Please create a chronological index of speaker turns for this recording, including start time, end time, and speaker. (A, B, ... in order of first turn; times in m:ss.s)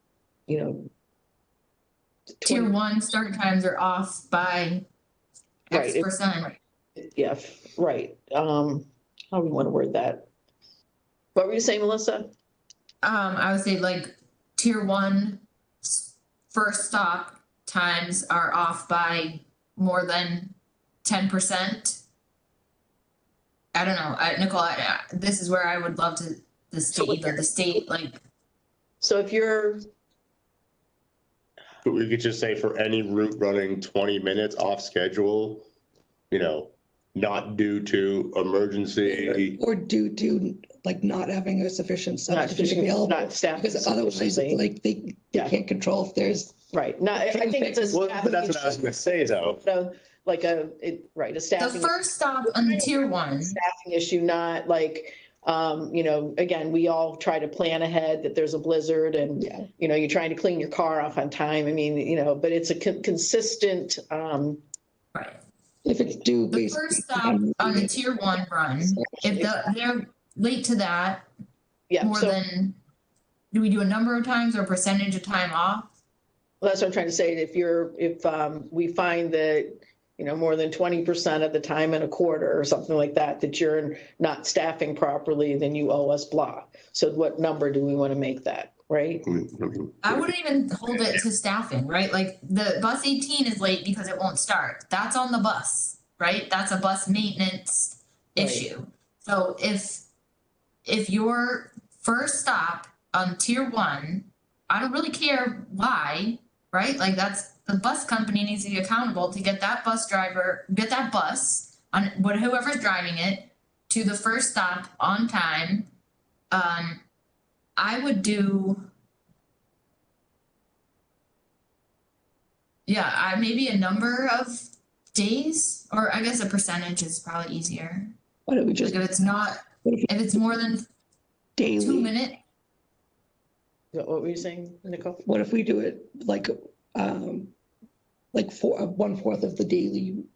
0:00.5-0:00.9 A
0:02.4-0:02.8 A
0:02.4-0:04.8 B
0:05.7-0:06.5 B
0:05.7-0:06.1 A
0:07.0-0:10.3 A
0:11.3-0:12.3 A
0:13.0-0:22.0 B
0:23.7-0:28.2 B
0:26.9-0:27.5 A
0:29.0-0:29.8 A
0:31.8-0:35.7 C
0:36.3-0:39.6 C
0:39.1-0:48.0 D
0:42.3-0:44.6 A
0:46.7-0:48.9 A
0:47.9-0:49.6 C
0:49.6-1:04.6 A
0:51.6-0:53.6 B
0:59.4-0:59.7 D
1:05.1-1:05.4 B
1:05.8-1:08.0 D
1:06.5-1:11.3 B
1:08.9-1:09.3 D
1:11.9-1:12.4 A
1:12.0-1:12.8 B
1:13.5-1:15.9 B
1:16.6-1:29.2 A
1:29.2-1:30.3 C
1:30.0-1:40.0 B
1:30.9-1:31.2 C
1:38.4-1:38.7 A
1:40.8-1:55.9 B
1:56.5-1:57.0 B
1:57.8-1:58.9 B
2:02.9-2:08.1 B
2:08.5-2:09.0 D
2:08.8-2:10.8 B
2:11.6-2:12.1 D
2:11.8-2:12.4 B
2:13.9-2:15.2 A
2:15.2-2:17.5 D
2:18.3-2:20.3 D